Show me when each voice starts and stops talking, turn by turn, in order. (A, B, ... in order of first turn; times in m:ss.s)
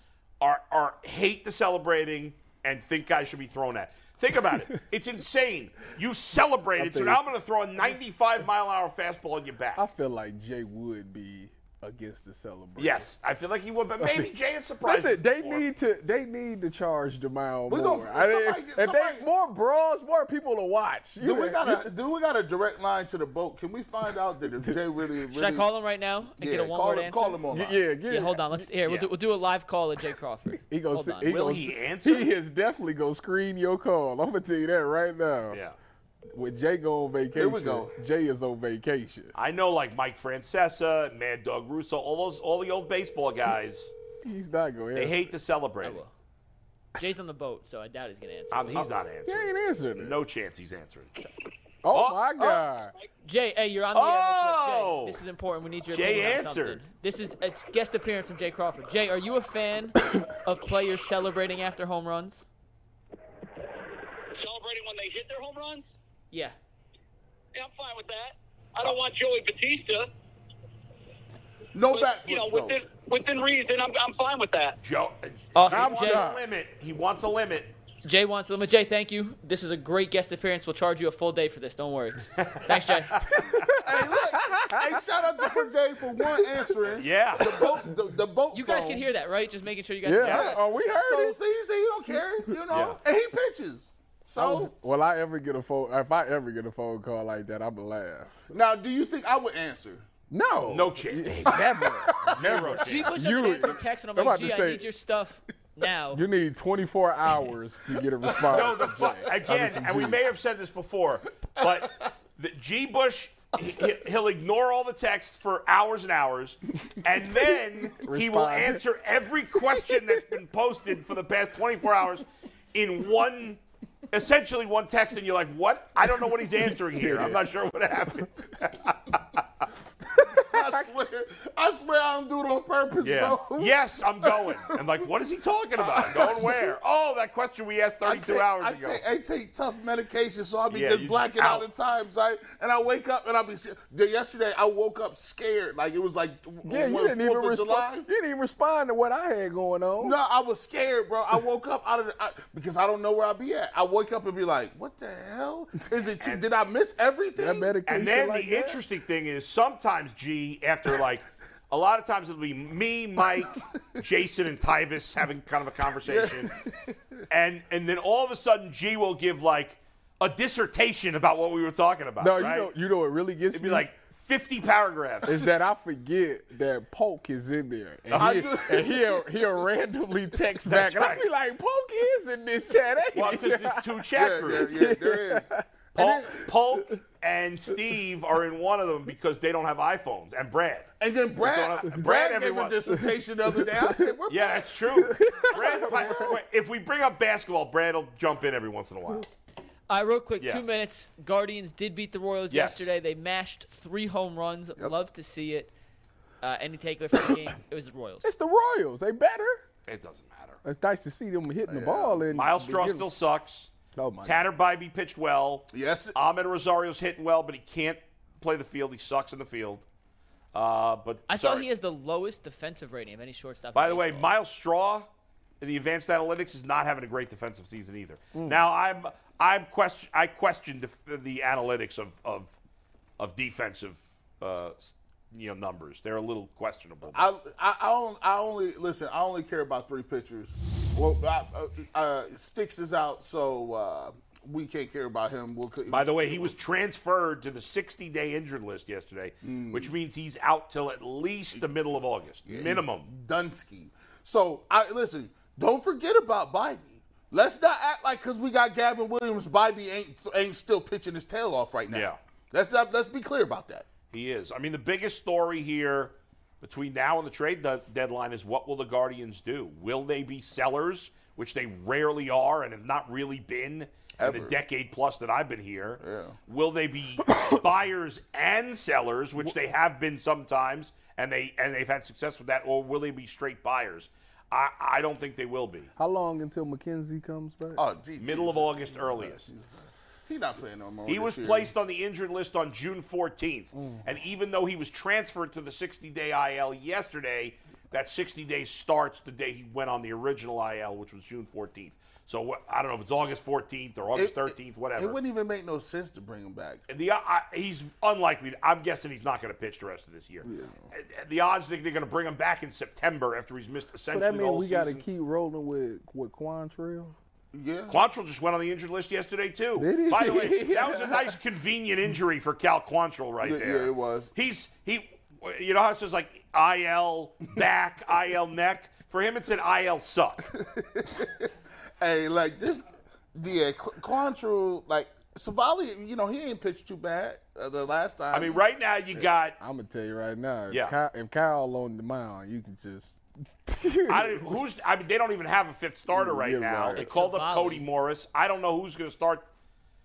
0:00.4-0:09.8 A
0:06.8-0:07.3 B
0:09.8-0:13.1 B
0:12.8-0:15.7 A
0:14.0-0:14.3 B
0:14.8-0:21.9 B
0:17.7-0:19.2 C
0:21.2-0:25.7 C
0:25.3-0:27.4 D
0:26.4-0:27.8 C
0:27.5-0:28.7 B
0:28.1-0:31.4 D
0:30.7-0:35.6 B
0:31.3-0:32.3 A
0:35.5-0:35.8 A
0:36.3-0:39.3 B
0:37.4-0:37.9 C
0:39.4-0:43.9 A
0:44.2-0:45.3 B
0:45.0-0:46.0 A
0:45.8-0:46.1 D
0:47.0-0:48.9 D
0:48.5-0:51.1 A
0:49.3-0:50.2 B
0:51.8-0:52.9 B
0:51.9-0:52.6 A
0:53.2-1:02.5 D
0:53.9-0:55.2 A
0:55.9-0:56.8 A
1:04.3-1:05.9 E
1:06.3-1:06.6 D
1:07.6-1:10.1 E
1:11.7-1:12.8 C
1:11.9-1:14.8 E
1:14.8-1:17.7 A
1:15.6-1:16.2 D
1:15.7-1:16.4 B
1:18.0-1:23.3 D
1:22.4-1:23.8 A
1:23.4-1:26.4 B
1:23.8-1:29.1 C
1:27.0-1:27.6 A
1:27.4-1:27.8 B
1:28.5-1:30.5 D
1:30.0-1:31.4 B
1:30.2-1:34.7 C
1:32.7-1:33.0 A
1:34.4-1:38.5 B
1:38.5-1:40.1 C
1:40.3-1:44.9 B
1:40.7-1:43.2 A
1:41.5-1:42.4 C
1:42.8-1:46.2 D
1:46.1-1:50.2 B
1:48.5-2:09.7 A
1:57.9-1:58.8 B
2:06.9-2:07.4 B
2:10.2-2:10.8 B
2:10.3-2:14.6 C
2:13.0-2:19.0 A
2:15.8-2:16.6 C
2:18.0-2:28.1 C
2:20.7-2:21.7 A
2:26.6-2:30.2 B
2:30.0-2:37.8 C
2:36.2-2:36.5 A
2:37.3-2:38.8 B
2:37.9-2:46.6 A
2:46.0-2:47.0 C
2:47.3-2:52.7 A
2:52.2-2:53.9 B
2:53.5-2:55.5 A
2:55.2-3:05.6 B
2:58.1-2:58.6 A
2:58.1-2:59.2 C
3:00.7-3:01.2 A
3:03.1-3:04.8 A
3:04.2-3:06.4 C
3:06.0-3:10.9 A
3:11.0-3:14.7 C
3:11.4-3:12.8 A
3:13.0-3:14.1 B
3:14.3-3:19.3 A
3:14.9-3:16.4 B
3:15.8-3:16.3 C
3:19.9-3:25.7 D
3:22.5-3:22.9 A
3:26.4-3:28.3 D
3:28.2-3:29.6 B
3:29.9-3:30.6 A
3:30.6-3:33.1 B
3:31.7-3:32.2 C
3:32.3-3:33.7 A
3:34.0-3:34.4 B
3:34.2-3:39.8 A
3:35.7-3:36.1 C
3:40.5-3:41.7 A
3:41.3-3:44.3 D
3:43.8-3:45.1 A
3:45.6-3:52.5 A
3:48.4-3:48.6 B
3:53.2-3:57.2 A
3:57.1-4:06.5 C
4:05.9-4:13.1 A
4:09.4-4:09.9 C
4:12.5-4:23.9 C
4:21.9-4:22.2 A
4:24.1-4:45.9 A
4:34.2-4:34.6 C
4:36.0-4:36.4 C
4:46.0-4:47.8 B
4:47.8-4:51.7 C
4:48.2-4:49.5 A
4:51.1-5:05.2 A
4:53.7-4:54.0 B
5:04.2-5:06.8 C
5:06.9-5:15.0 A
5:10.4-5:10.9 B
5:14.1-5:17.2 B
5:17.5-5:18.0 C
5:17.9-5:30.5 A
5:19.8-5:21.4 B
5:23.4-5:24.3 C
5:30.6-5:38.6 C
5:38.3-5:39.6 A
5:39.2-5:44.6 B
5:44.1-5:49.5 A
5:46.1-5:47.1 B
5:47.0-5:47.8 D